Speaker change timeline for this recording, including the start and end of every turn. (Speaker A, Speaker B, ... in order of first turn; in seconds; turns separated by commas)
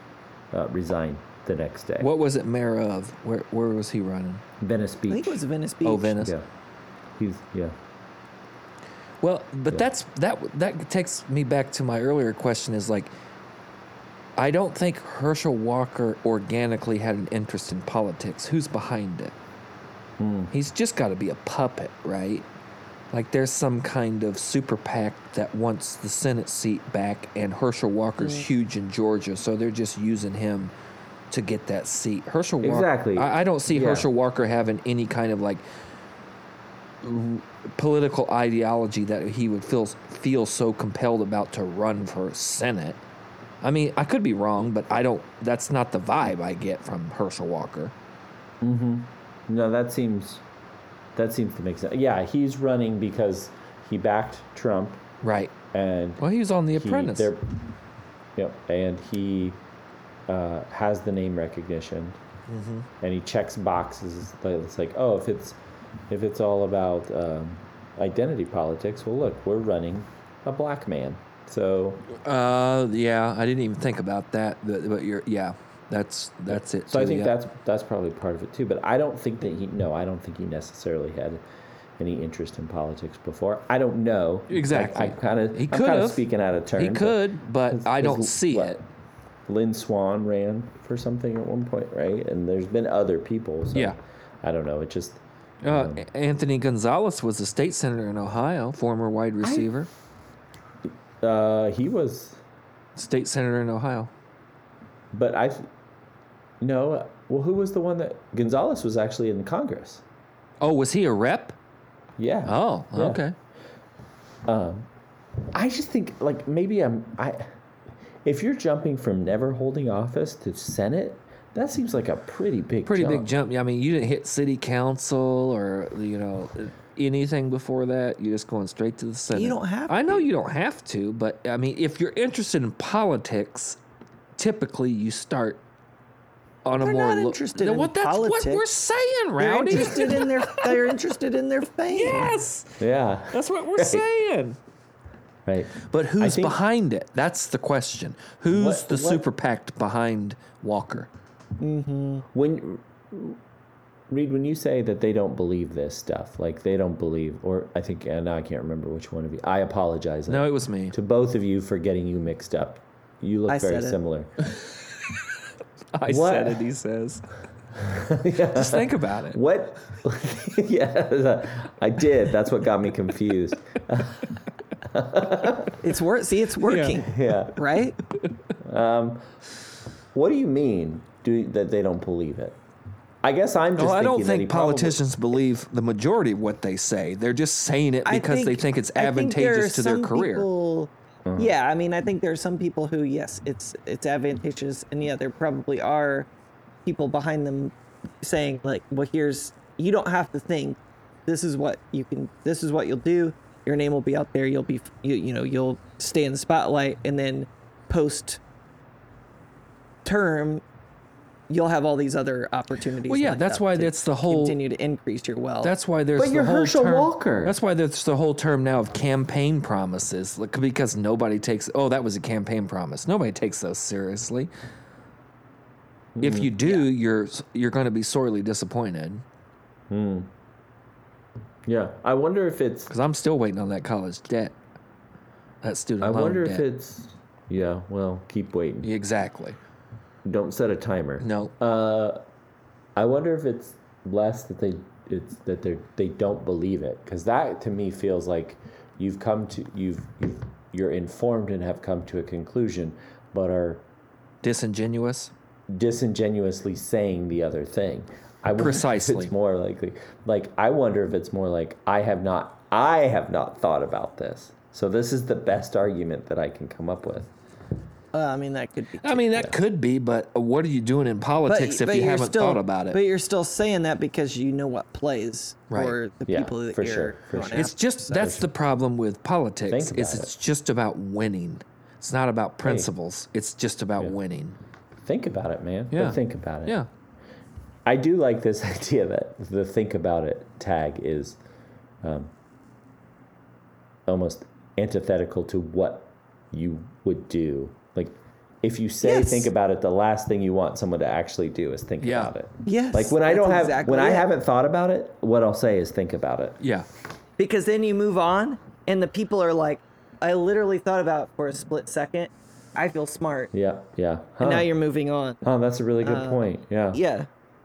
Speaker A: 0.5-2.1, Speaker B: 2.0-4.4, Speaker A: 4.6-5.4, Speaker C: 5.1-6.2, Speaker B: 5.8-6.3, Speaker A: 6.2-6.5, Speaker A: 7.2-7.8, Speaker B: 9.2-13.1, Speaker B: 14.4-19.3, Speaker A: 20.2-20.5, Speaker B: 20.5-22.5, Speaker B: 23.1-30.7, Speaker C: 28.2-28.5, Speaker B: 31.3-35.6, Speaker A: 32.6-34.1, Speaker B: 37.0-43.0, Speaker B: 43.6-47.9, Speaker A: 48.6-50.4, Speaker A: 51.1-55.0, Speaker B: 55.2-55.5, Speaker A: 55.7-57.5, Speaker B: 56.2-57.3, Speaker A: 58.4-59.6, Speaker A: 60.3-62.2, Speaker B: 62.5-62.9, Speaker A: 63.0-65.6, Speaker A: 66.1-72.1, Speaker B: 72.1-77.3, Speaker A: 76.5-81.4, Speaker A: 82.0-88.8, Speaker B: 84.5-86.2, Speaker B: 86.8-88.8, Speaker A: 89.5-96.0, Speaker B: 95.6-99.9, Speaker A: 99.4-99.7, Speaker A: 101.2-102.4, Speaker B: 103.0-104.1, Speaker A: 105.1-105.7, Speaker A: 106.6-110.0, Speaker B: 110.6-111.6, Speaker A: 112.2-113.2, Speaker B: 112.5-113.3, Speaker A: 114.5-114.9, Speaker A: 115.5-117.5, Speaker A: 118.2-123.3, Speaker B: 122.9-133.8, Speaker C: 129.3-130.3, Speaker B: 134.4-135.6, Speaker B: 136.7-140.9, Speaker C: 136.8-138.7, Speaker C: 139.4-142.3, Speaker B: 141.9-144.6, Speaker A: 142.8-144.1, Speaker A: 145.5-146.6, Speaker B: 145.8-151.1, Speaker A: 148.5-149.2, Speaker C: 151.6-152.2, Speaker A: 152.3-153.4, Speaker A: 154.1-164.3, Speaker B: 160.3-160.9, Speaker C: 163.5-164.0, Speaker B: 165.9-167.2, Speaker A: 166.1-166.7, Speaker A: 167.8-175.8, Speaker B: 168.5-169.4, Speaker C: 175.8-178.0, Speaker B: 176.7-177.0, Speaker A: 177.0-177.6, Speaker A: 178.6-179.2, Speaker A: 180.1-182.6, Speaker A: 183.2-185.0, Speaker B: 183.8-190.5, Speaker C: 188.1-196.3, Speaker A: 191.3-191.5, Speaker C: 196.8-208.4, Speaker C: 210.1-210.6, Speaker C: 211.5-215.7, Speaker B: 213.1-214.6, Speaker B: 215.6-224.5, Speaker A: 216.2-217.6, Speaker A: 226.2-226.7, Speaker B: 226.2-229.2, Speaker A: 229.9-230.3, Speaker A: 231.7-232.9, Speaker B: 232.9-234.6, Speaker B: 235.6-236.6, Speaker A: 236.0-238.9, Speaker B: 238.8-239.6, Speaker A: 240.2-242.2, Speaker B: 241.2-241.5, Speaker A: 243.0-253.8, Speaker B: 254.4-255.3, Speaker A: 255.7-267.3, Speaker B: 258.6-259.3, Speaker C: 268.1-269.3, Speaker B: 269.0-273.0, Speaker C: 271.5-278.2, Speaker B: 275.7-276.0, Speaker A: 276.3-278.5, Speaker B: 277.5-284.6, Speaker A: 279.7-280.3, Speaker A: 282.6-282.9, Speaker A: 285.0-286.8, Speaker B: 285.9-286.9, Speaker A: 287.9-291.4, Speaker A: 292.0-292.3, Speaker A: 294.1-306.6, Speaker C: 299.0-299.5, Speaker B: 302.0-302.3, Speaker C: 302.6-304.3, Speaker B: 306.6-306.9, Speaker C: 307.4-313.5, Speaker A: 313.5-314.7, Speaker C: 314.4-315.4, Speaker A: 315.4-317.0, Speaker C: 316.0-317.3